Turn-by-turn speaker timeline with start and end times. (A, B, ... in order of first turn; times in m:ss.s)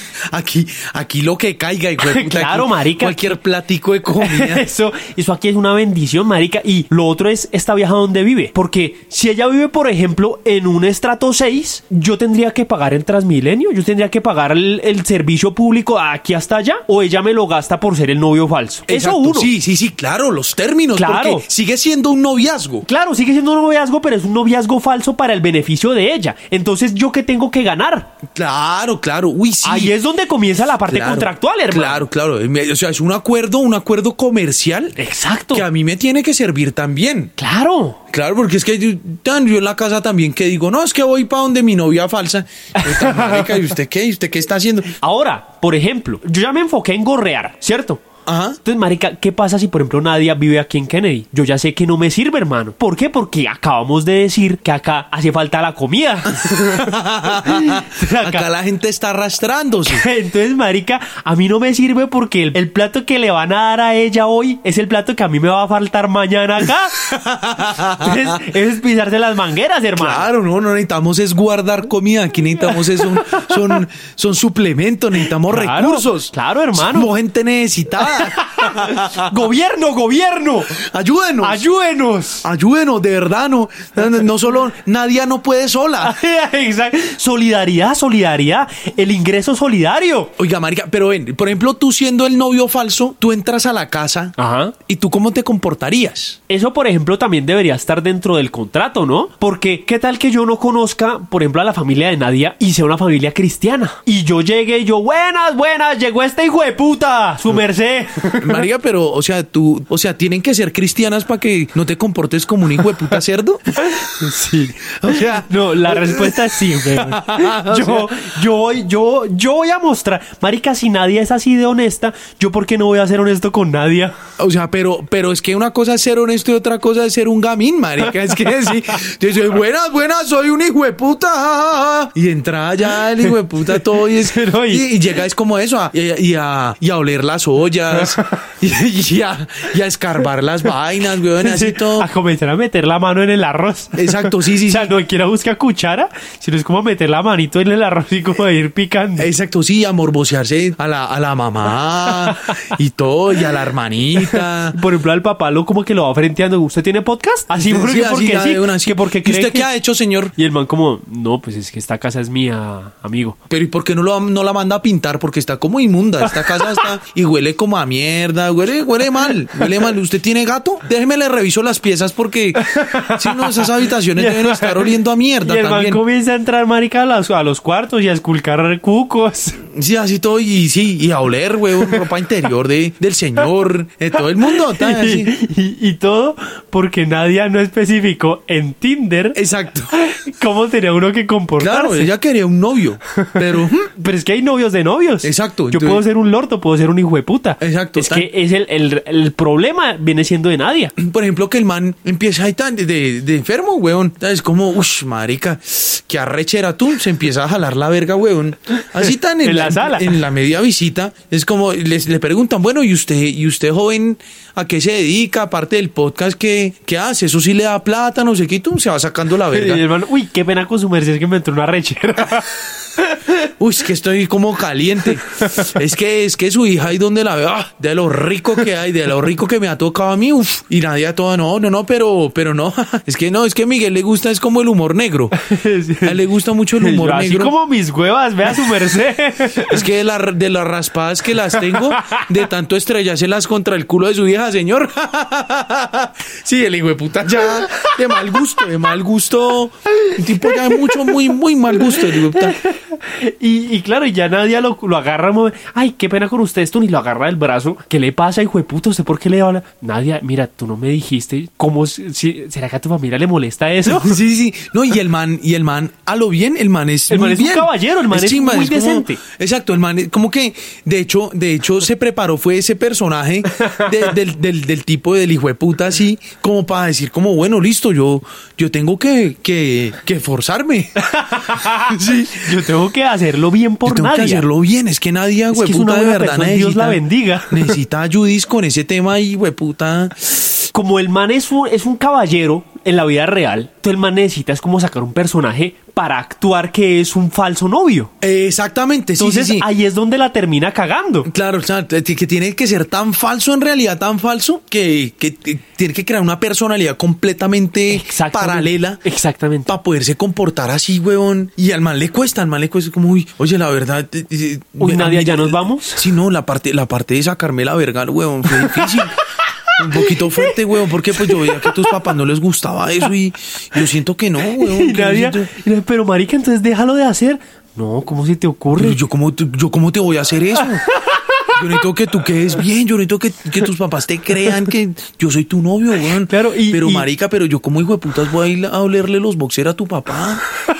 0:00.3-0:04.6 A
0:02.0-0:03.4 B
0:04.2-0:19.5 B
0:18.9-0:22.8 A
0:21.0-0:21.4 B
0:22.8-0:28.1 B
0:28.3-0:29.9 A
0:29.6-0:32.0 B
0:30.9-0:35.0 A
0:35.0-0:35.6 B
0:35.5-0:37.3 A
0:37.4-0:38.0 B
0:38.1-0:44.9 A
0:42.8-0:43.6 B
0:45.0-0:48.0 B
0:48.2-0:48.6 A
0:48.6-0:58.5 B
0:56.3-1:00.0 A
0:59.8-1:07.0 B
1:06.9-1:08.5 A
1:07.9-1:10.3 B
1:10.0-1:19.3 A
1:12.7-1:13.8 B
1:15.4-1:17.1 B
1:18.0-1:20.8 B
1:20.7-1:21.6 A
1:21.4-1:22.4 B
1:22.4-1:26.2 A
1:26.0-1:30.3 B
1:30.4-1:36.4 A
1:34.4-1:34.7 B
1:36.5-1:48.6 B
1:48.3-1:53.8 A
1:53.8-2:04.2 B
1:55.0-1:58.3 A
2:04.4-2:22.1 A
2:13.2-2:14.9 B
2:18.0-2:18.5 B
2:21.4-2:29.3 B
2:23.9-2:24.9 A
2:29.2-2:34.8 A
2:32.0-2:32.7 B
2:34.2-2:39.7 B
2:37.5-2:40.3 A
2:40.4-2:43.4 B
2:43.5-2:56.0 A
2:46.3-2:46.9 B
2:49.6-2:49.8 B
2:52.6-2:59.6 B
2:59.7-3:05.3 A
3:04.4-3:09.4 B
3:09.4-3:09.9 A
3:09.9-3:12.1 B
3:11.6-3:13.9 A
3:13.1-3:20.9 B
3:15.2-3:16.0 A
3:17.6-3:18.3 A
3:21.0-3:39.8 A
3:29.4-3:30.2 B
3:39.5-3:43.5 B
3:43.6-3:55.3 A
3:45.3-3:45.7 B
3:55.3-3:56.2 B
3:56.0-3:57.5 A
3:56.8-3:59.8 B
3:59.6-4:12.6 A
4:01.5-4:02.3 B
4:07.6-4:08.4 B
4:10.0-4:11.2 B
4:11.7-4:24.2 B
4:23.8-4:42.7 A
4:27.1-4:29.2 B
4:33.5-4:34.1 B
4:41.0-4:44.4 B
4:43.8-4:50.7 A
4:45.5-4:47.8 B
4:50.7-4:58.1 B
4:58.2-4:59.7 A
4:59.2-5:01.3 B
5:01.3-5:09.0 A
5:07.9-5:09.7 B
5:09.6-5:19.2 A
5:14.8-5:16.1 B
5:18.5-5:21.9 B
5:19.8-5:25.5 A
5:24.4-5:29.0 B
5:28.7-5:30.9 A
5:30.6-5:31.8 B
5:31.5-5:40.4 A
5:34.4-5:34.7 B
5:36.2-5:37.1 B